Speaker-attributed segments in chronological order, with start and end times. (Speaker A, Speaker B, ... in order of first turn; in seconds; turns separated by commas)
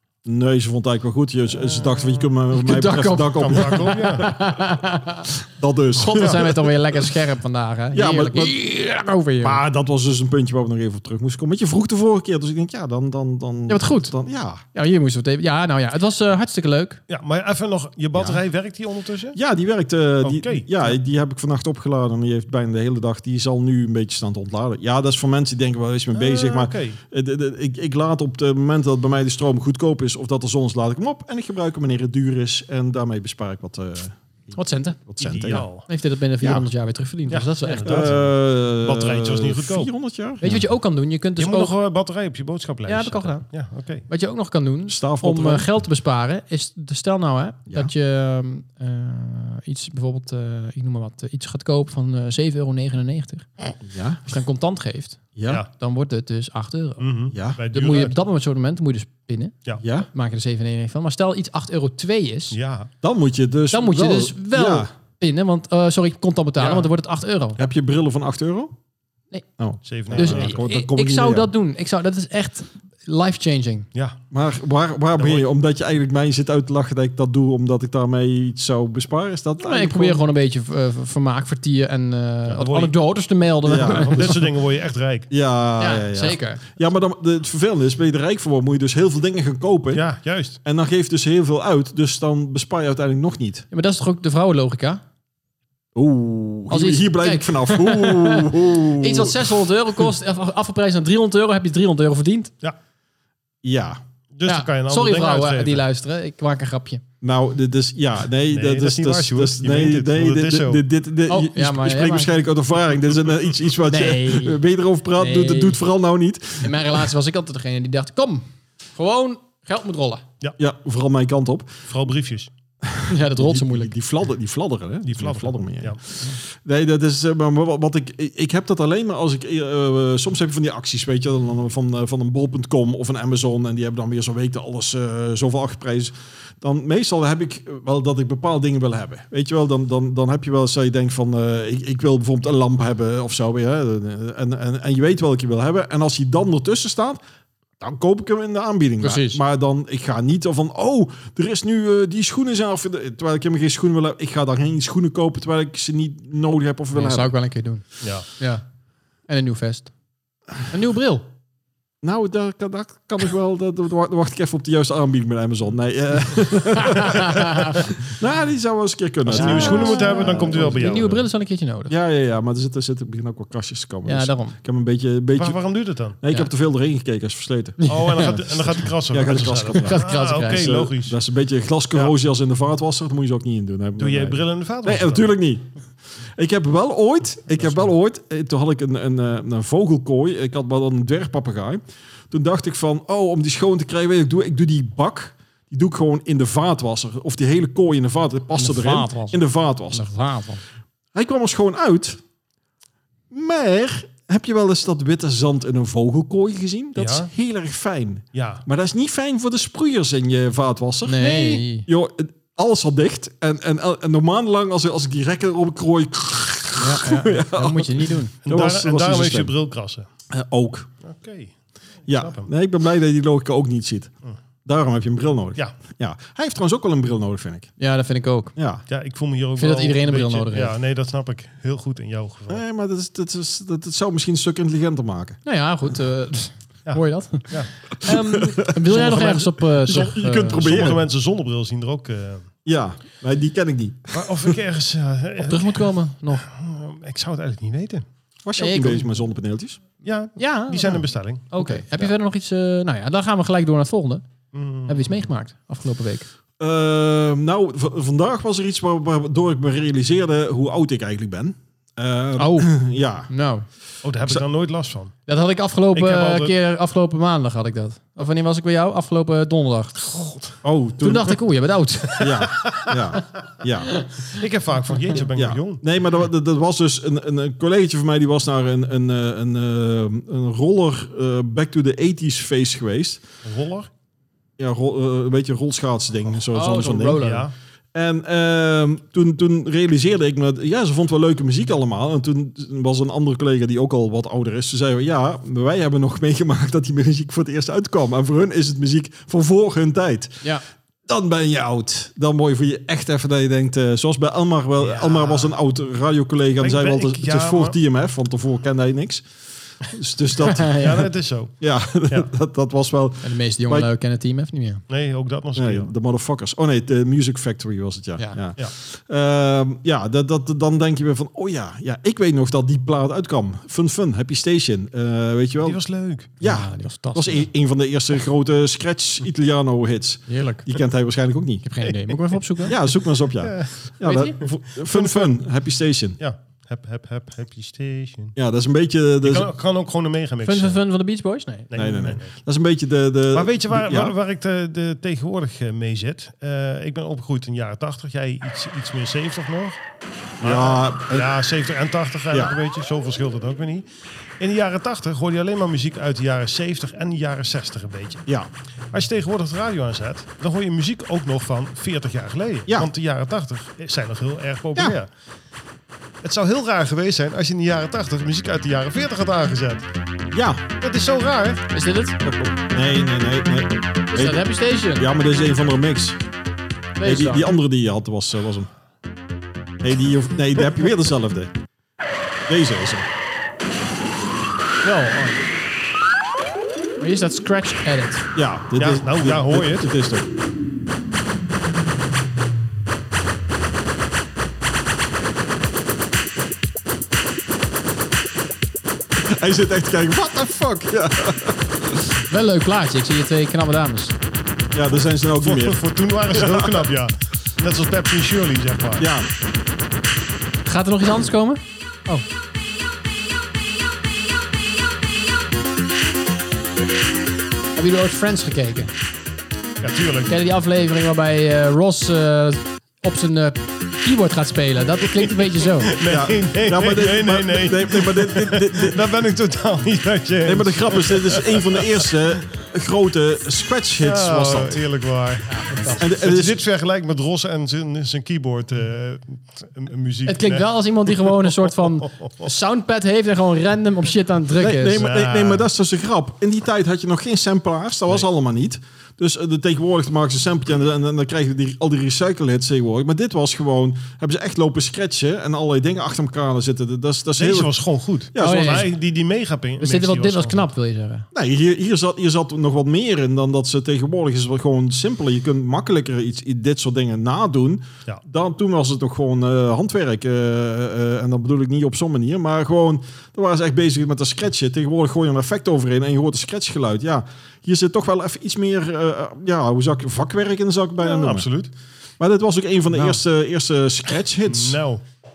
Speaker A: 0.2-4.3, Speaker B: 1.6-2.3, Speaker C: 2.5-5.3, Speaker B: 3.4-4.3, Speaker A: 5.4-6.7, Speaker C: 6.0-9.6, Speaker B: 6.2-6.4, Speaker A: 7.9-8.6, Speaker A: 9.4-14.6, Speaker C: 13.7-14.1, Speaker C: 14.7-17.0, Speaker B: 17.1-19.4, Speaker A: 18.1-18.4, Speaker A: 19.3-34.5, Speaker B: 20.2-20.7, Speaker B: 26.1-27.0, Speaker C: 34.5-35.0, Speaker A: 35.1-35.7, Speaker B: 35.2-35.9, Speaker C: 35.5-38.1, Speaker B: 37.3-39.9, Speaker A: 37.9-40.6, Speaker C: 40.4-41.7, Speaker B: 41.4-44.0, Speaker C: 42.9-43.5, Speaker C: 44.1-53.5, Speaker A: 44.9-45.7, Speaker A: 53.8-54.2, Speaker C: 54.2-62.6, Speaker A: 55.4-55.6, Speaker B: 57.0-58.1, Speaker A: 57.3-57.6, Speaker A: 59.8-60.1, Speaker B: 62.5-62.9, Speaker A: 63.0-64.9, Speaker C: 63.7-67.6, Speaker B: 66.6-66.9, Speaker A: 67.6-68.7, Speaker A: 69.6-71.5, Speaker B: 69.8-70.6, Speaker C: 70.1-73.9, Speaker A: 74.3-80.2, Speaker B: 75.2-75.5, Speaker C: 79.6-84.4, Speaker B: 82.5-82.9, Speaker A: 83.7-84.3, Speaker B: 83.8-85.3, Speaker A: 85.3-90.0, Speaker C: 85.8-86.6, Speaker B: 89.9-90.6, Speaker A: 90.6-93.6, Speaker C: 93.7-95.0, Speaker A: 95.9-99.5, Speaker C: 96.7-102.5, Speaker A: 103.6-104.0, Speaker B: 104.3-105.8, Speaker C: 104.4-107.0, Speaker A: 107.2-117.0, Speaker B: 108.5-110.8, Speaker C: 111.3-112.3, Speaker C: 113.9-114.6, Speaker C: 115.2-115.8, Speaker C: 116.6-120.2, Speaker A: 120.6-121.8, Speaker B: 121.9-122.5, Speaker A: 122.8-147.2, Speaker C: 123.1-123.9, Speaker B: 125.0-126.0, Speaker A: 147.8-157.3, Speaker C: 149.0-149.4, Speaker C: 156.9-158.6, Speaker B: 158.0-158.3, Speaker C: 159.3-159.9, Speaker C: 160.7-161.3, Speaker A: 162.0-171.2, Speaker C: 166.8-167.8, Speaker B: 169.2-171.1, Speaker C: 169.3-171.9, Speaker A: 171.9-175.6, Speaker C: 174.0-174.6, Speaker B: 175.3-176.2, Speaker A: 176.2-185.7, Speaker C: 177.8-178.4, Speaker B: 177.9-181.2, Speaker C: 179.8-180.7, Speaker B: 184.0-185.3, Speaker A: 186.3-200.1, Speaker C: 198.5-200.6, Speaker A: 201.1-202.2, Speaker A: 203.3-219.5, Speaker B: 206.9-207.3, Speaker B: 208.3-208.6, Speaker C: 211.1-211.9, Speaker C: 216.8-218.3, Speaker B: 218.4-220.1, Speaker A: 220.3-220.9, Speaker B: 221.0-221.5, Speaker A: 222.1-224.1, Speaker B: 222.1-222.5, Speaker A: 224.6-227.7, Speaker C: 227.8-228.5, Speaker A: 228.6-228.8, Speaker B: 228.9-232.6, Speaker C: 229.6-230.7, Speaker A: 232.5-235.4, Speaker C: 235.4-240.9, Speaker B: 236.8-237.7, Speaker A: 238.0-241.1, Speaker B: 240.5-242.5, Speaker A: 242.6-244.5, Speaker B: 244.1-248.0, Speaker C: 245.4-246.4, Speaker A: 248.4-249.8, Speaker C: 248.6-249.1, Speaker B: 250.0-252.1, Speaker C: 250.4-254.2, Speaker B: 254.5-255.2, Speaker C: 254.9-256.3, Speaker A: 256.6-263.3, Speaker C: 262.4-262.7, Speaker C: 263.3-263.6, Speaker B: 264.0-265.1, Speaker C: 265.3-270.4, Speaker B: 265.9-266.5, Speaker A: 270.6-271.4, Speaker C: 271.0-272.8, Speaker A: 272.2-274.1, Speaker B: 274.3-275.8, Speaker A: 275.3-283.2, Speaker B: 283.4-283.9, Speaker A: 284.6-287.2, Speaker C: 286.5-287.5, Speaker B: 287.1-287.5, Speaker A: 287.9-300.4, Speaker A: 301.1-309.2, Speaker B: 304.9-305.2, Speaker B: 306.6-307.8, Speaker A: 309.8-311.0, Speaker C: 310.4-311.1, Speaker B: 310.8-312.3, Speaker A: 311.6-313.9, Speaker C: 313.2-314.8, Speaker B: 314.9-315.9, Speaker A: 315.5-325.8, Speaker B: 325.6-326.3, Speaker A: 326.4-331.7, Speaker C: 326.4-327.5, Speaker C: 330.3-330.7, Speaker C: 331.6-332.8, Speaker A: 332.6-336.2, Speaker B: 333.4-333.8, Speaker C: 334.0-334.4, Speaker B: 334.4-335.4, Speaker B: 336.2-338.4, Speaker A: 338.4-339.5, Speaker B: 339.2-340.8, Speaker C: 340.4-341.7, Speaker B: 341.7-342.3, Speaker A: 341.7-344.1, Speaker B: 343.3-349.8, Speaker A: 350.4-351.3, Speaker B: 350.4-353.9, Speaker A: 352.3-352.6, Speaker B: 354.4-358.2, Speaker B: 358.9-365.1, Speaker B: 366.2-369.9, Speaker A: 370.3-370.6, Speaker B: 370.8-371.6, Speaker C: 371.7-372.2, Speaker A: 372.2-376.2, Speaker C: 374.1-375.1, Speaker C: 377.0-377.5, Speaker A: 377.0-378.7, Speaker A: 379.8-381.5, Speaker A: 382.5-383.1, Speaker C: 384.8-385.4, Speaker C: 387.0-388.2, Speaker A: 388.3-390.3, Speaker B: 388.7-389.9, Speaker A: 399.2-402.1, Speaker C: 402.3-404.1, Speaker A: 404.7-405.8, Speaker B: 405.4-409.1, Speaker A: 406.3-406.8, Speaker A: 409.0-409.3, Speaker C: 410.6-412.2, Speaker C: 417.8-418.9, Speaker B: 419.8-420.4, Speaker C: 420.3-425.9, Speaker B: 425.8-432.1, Speaker A: 426.0-429.0, Speaker A: 430.4-434.8, Speaker B: 434.0-441.5, Speaker C: 435.5-436.0, Speaker A: 436.0-436.6, Speaker C: 440.2-445.0, Speaker A: 444.6-457.7, Speaker B: 444.9-445.7, Speaker B: 457.4-460.7, Speaker A: 458.3-458.9, Speaker C: 458.4-458.9, Speaker C: 459.8-461.3, Speaker A: 461.3-481.5, Speaker B: 481.0-481.7, Speaker A: 482.2-484.8, Speaker B: 482.9-483.2, Speaker B: 484.4-485.0